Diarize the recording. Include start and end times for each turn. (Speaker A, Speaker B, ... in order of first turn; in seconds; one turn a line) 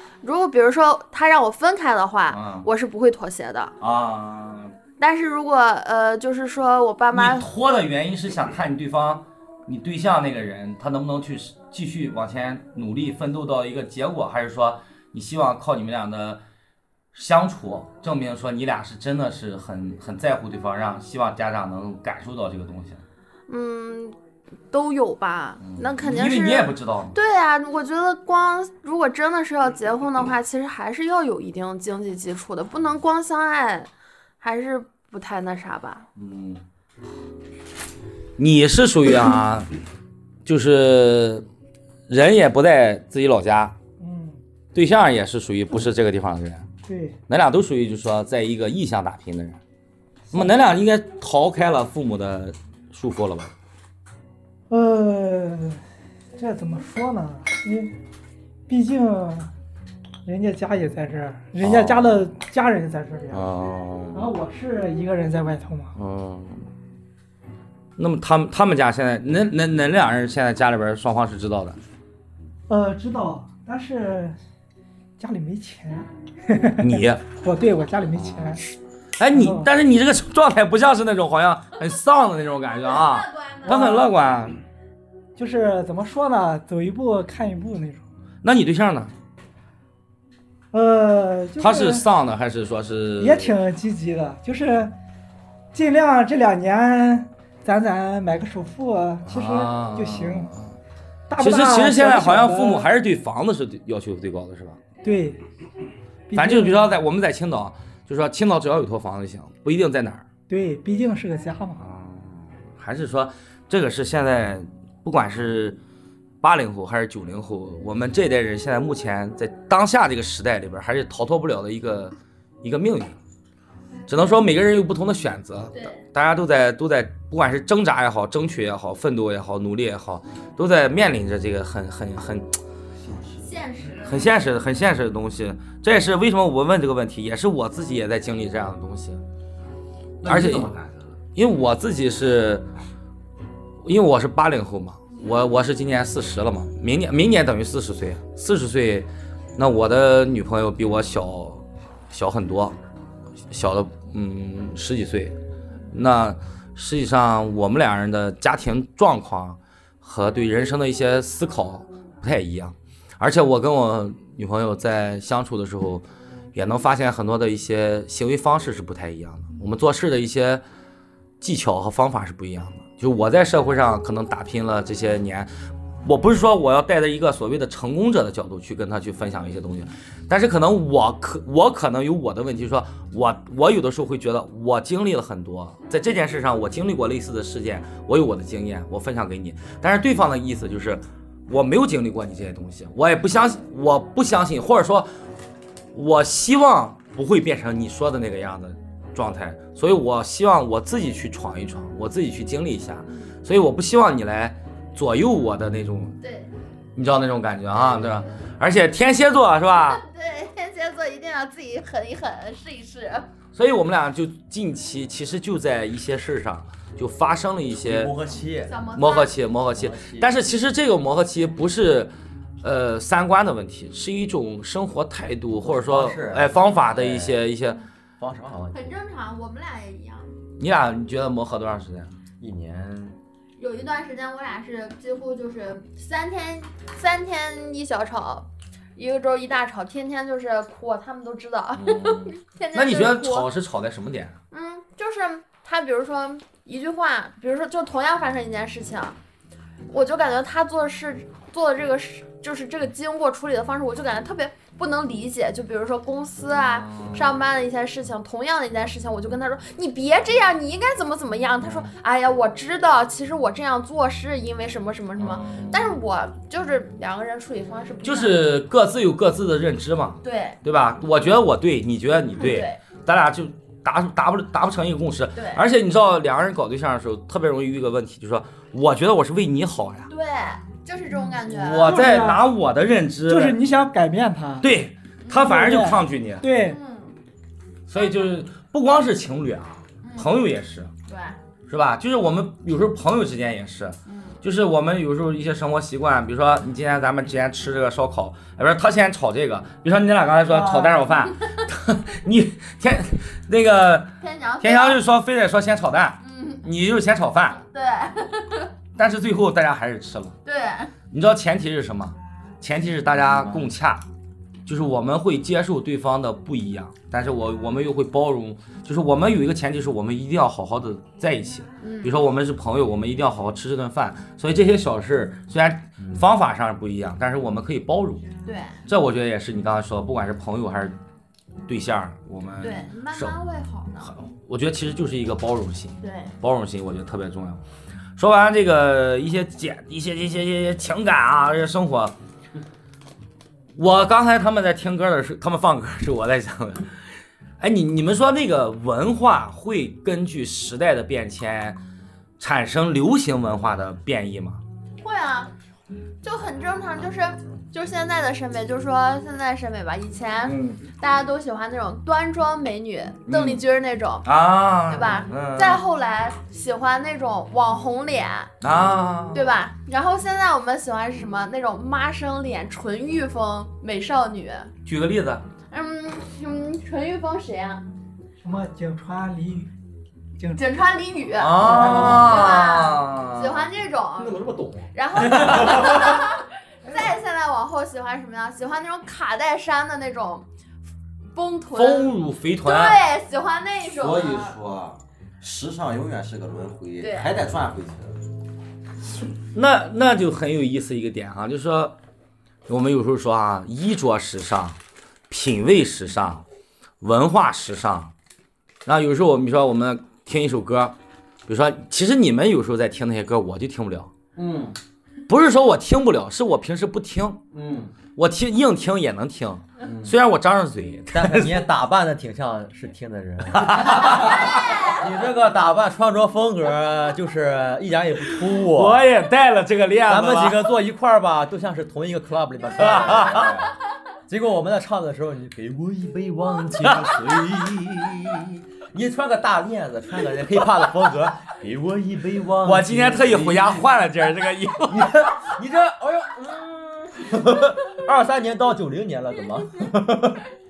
Speaker A: 0.2-3.8
Speaker B: 2.3-2.7
Speaker B: 3.8-4.8
Speaker A: 5.0-7.5
Speaker B: 7.1-16.4
Speaker B: 17.1-23.0
Speaker A: 23.5-24.2
Speaker A: 24.7-33.9
Speaker B: 25.6-27.1
Speaker A: 34.4-36.1
Speaker B: 36.2-36.6
Speaker B: 38.4-39.7
Speaker B: 40.5-41.5
Speaker B: 42.1-43.8
Speaker C: 44.0-44.4
Speaker B: 44.8-46.7
Speaker C: 46.9-47.2
Speaker B: 47.3-49.6
Speaker B: 50.3-53.5
Speaker C: 54.7-55.8
Speaker C: 56.4-57.9
Speaker C: 58.7-59.5
Speaker C: 60.2-63.5
Speaker B: 61.6-62.3
Speaker B: 63.3-64.3
Speaker C: 64.1-65.9
Speaker B: 66.0-66.7
Speaker B: 68.0-71.8
Speaker C: 72.7-74.4
Speaker C: 75.2-78.6
Speaker B: 76.8-77.2
Speaker B: 79.2-84.6
Speaker C: 79.3-79.7
Speaker A: 82.9-83.8
Speaker C: 83.7-84.1
Speaker C: 85.4-88.0
Speaker B: 88.4-89.1
Speaker C: 90.7-92.0
Speaker B: 91.6-93.5
Speaker C: 93.2-94.9
Speaker C: 95.7-100.5
Speaker B: 99.3-100.8
Speaker C: 101.3-102.9
Speaker B: 101.4-104.8
Speaker C: 105.0-105.4
Speaker C: 106.3-107.0
Speaker B: 106.3-110.3
Speaker C: 110.5-111.8
Speaker B: 111.8-115.8
Speaker B: 116.4-123.2
Speaker B: 124.1-132.6
Speaker A: 125.7-126.0
Speaker D: 133.0-133.5
Speaker A: 133.4-134.3
Speaker B: 134.1-139.2
Speaker D: 140.2-141.2
Speaker B: 140.2-140.7
Speaker B: 141.3-142.7
Speaker B: 143.8-152.8
Speaker B: 153.5-155.4
Speaker B: 155.9-170.6
Speaker B: 171.4-175.5
Speaker B: 176.0-195.1
Speaker B: 195.9-206.2
Speaker A: 203.1-203.3
Speaker A: 206.2-206.5
Speaker B: 207.0-210.0
Speaker A: 208.0-208.2
Speaker A: 209.9-213.3
Speaker B: 213.5-218.1
Speaker E: 217.7-218.8
Speaker A: 218.7-219.3
Speaker B: 219.0-222.1
Speaker E: 219.7-220.3
Speaker B: 222.6-227.8
Speaker E: 225.6-227.4
Speaker E: 228.2-228.9
Speaker A: 228.7-230.3
Speaker B: 230.6-232.1
Speaker E: 232.4-233.2
Speaker A: 233.6-243.5
Speaker B: 241.8-244.4
Speaker A: 244.5-249.2
Speaker A: 249.9-268.5
Speaker B: 256.8-257.3
Speaker B: 261.6-261.9
Speaker B: 265.2-265.9
Speaker B: 268.0-280.1
Speaker A: 270.2-270.6
Speaker A: 272.4-272.8
Speaker A: 275.4-275.6
Speaker A: 280.1-282.1
Speaker B: 281.5-283.6
Speaker C: 281.8-282.4
Speaker C: 283.3-284.7
Speaker B: 284.6-286.5
Speaker A: 285.2-285.6
Speaker C: 285.4-286.8
Speaker A: 286.6-287.2
Speaker B: 287.9-290.9
Speaker A: 287.9-288.3
Speaker A: 290.0-290.4
Speaker A: 291.1-291.4
Speaker B: 291.7-307.6
Speaker A: 294.1-294.4
Speaker A: 300.5-301.2
Speaker A: 304.2-305.0
Speaker A: 306.2-306.6
Speaker A: 307.7-308.7
Speaker B: 309.0-310.4
Speaker A: 310.4-310.9
Speaker B: 311.1-314.1
Speaker B: 314.7-328.2
Speaker A: 321.8-322.2
Speaker A: 328.4-328.8
Speaker B: 328.9-331.0
Speaker B: 331.7-333.4
Speaker A: 332.6-334.1
Speaker B: 334.1-337.6
Speaker A: 336.0-336.3
Speaker B: 338.2-342.1
Speaker B: 343.8-346.9
Speaker B: 347.6-351.8
Speaker B: 352.4-354.6
Speaker A: 355.0-355.5
Speaker A: 356.2-364.3
Speaker B: 360.5-360.8
Speaker B: 363.3-363.6
Speaker B: 364.2-365.8
Speaker A: 364.9-368.5
Speaker B: 368.6-369.5
Speaker A: 369.3-374.7
Speaker B: 374.9-375.4
Speaker A: 375.7-377.8
Speaker C: 378.4-379.7
Speaker A: 380.6-390.5
Speaker B: 381.4-383.7
Speaker C: 381.6-382.5
Speaker E: 384.2-386.1
Speaker B: 385.4-385.9
Speaker A: 391.3-394.6
Speaker B: 391.7-393.0
Speaker D: 394.0-398.2
Speaker A: 397.0-397.3
Speaker B: 399.5-402.0
Speaker B: 402.7-404.8
Speaker B: 405.3-406.4
Speaker B: 407.0-408.1
Speaker B: 408.9-410.9
Speaker B: 411.5-414.1
Speaker D: 414.4-414.8
Speaker B: 415.3-417.4
Speaker D: 417.5-417.9
Speaker B: 418.2-421.7
Speaker E: 421.1-429.0
Speaker B: 423.5-424.6
Speaker A: 424.1-425.1
Speaker B: 428.3-430.7
Speaker E: 430.1-433.8
Speaker B: 432.8-433.6
Speaker E: 434.3-443.7
Speaker B: 436.8-437.4
Speaker B: 442.6-445.3
Speaker E: 444.9-450.4